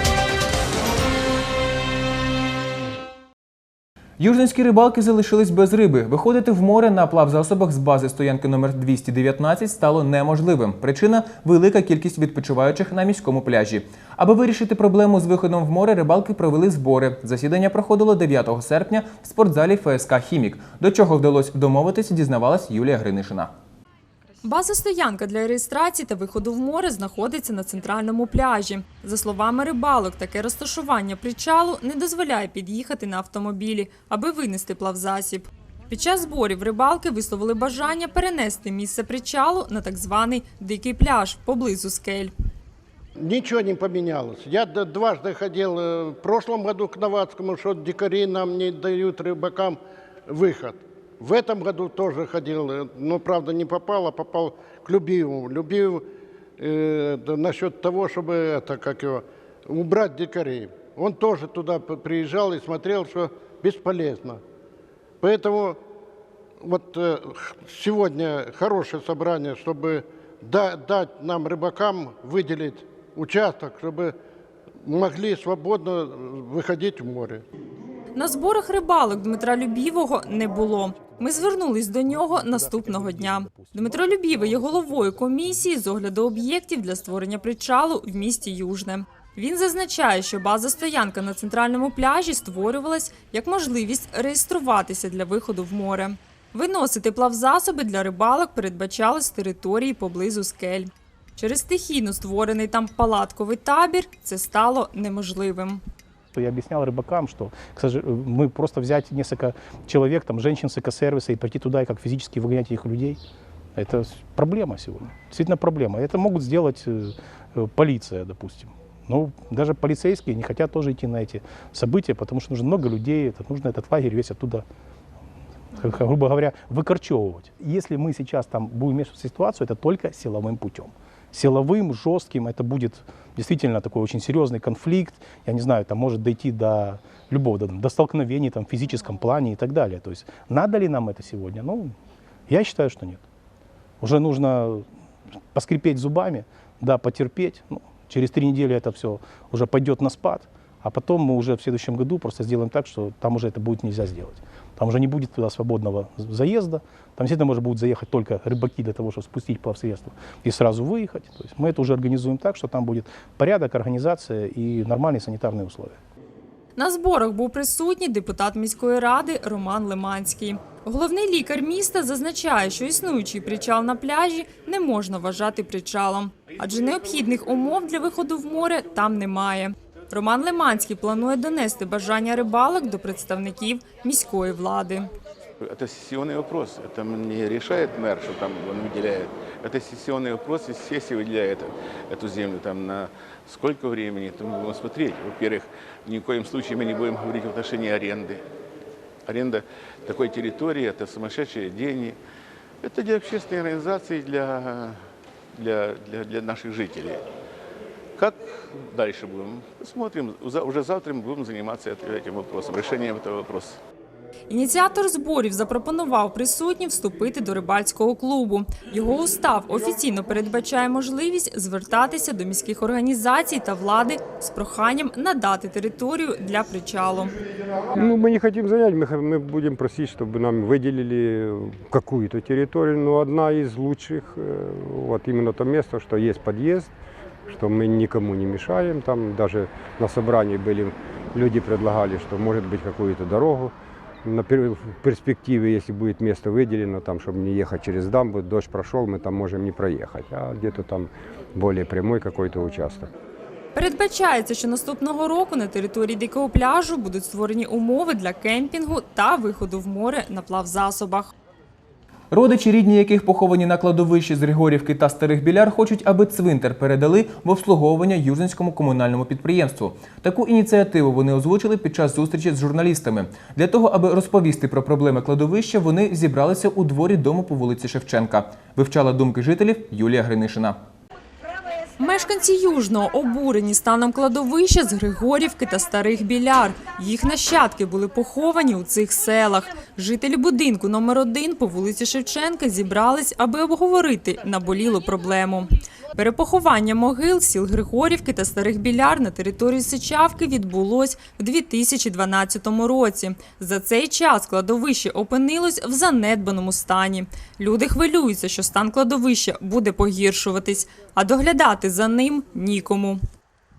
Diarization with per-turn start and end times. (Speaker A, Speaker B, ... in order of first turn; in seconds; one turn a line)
Speaker A: 4.2-23.5
Speaker B: 24.4-42.3
Speaker C: 43.2-49.8
Speaker C: 50.3-56.0
Speaker C: 56.6-64.4
Speaker C: 65.2-65.8
Speaker C: 66.6-74.1
Speaker C: 74.8-77.4
Speaker B: 78.2-105.8
Speaker D: 81.0-85.6
Speaker D: 106.3-113.2
Speaker D: 113.8-124.6
Speaker D: 125.8-141.9
Speaker D: 142.5-143.2
Speaker D: 144.0-144.8
Speaker D: 145.5-166.0
Speaker B: 166.8-185.1
Speaker E: 185.6-198.4
Speaker E: 199.3-202.2
Speaker E: 202.8-205.0
Speaker E: 205.5-207.2
Speaker E: 208.2-213.8
Speaker B: 214.5-227.3
Speaker F: 228.0-236.9
Speaker F: 237.5-243.7
Speaker F: 244.2-253.1
Speaker B: 253.7-261.3
Speaker A: 262.3-280.8
Speaker B: 282.0-313.2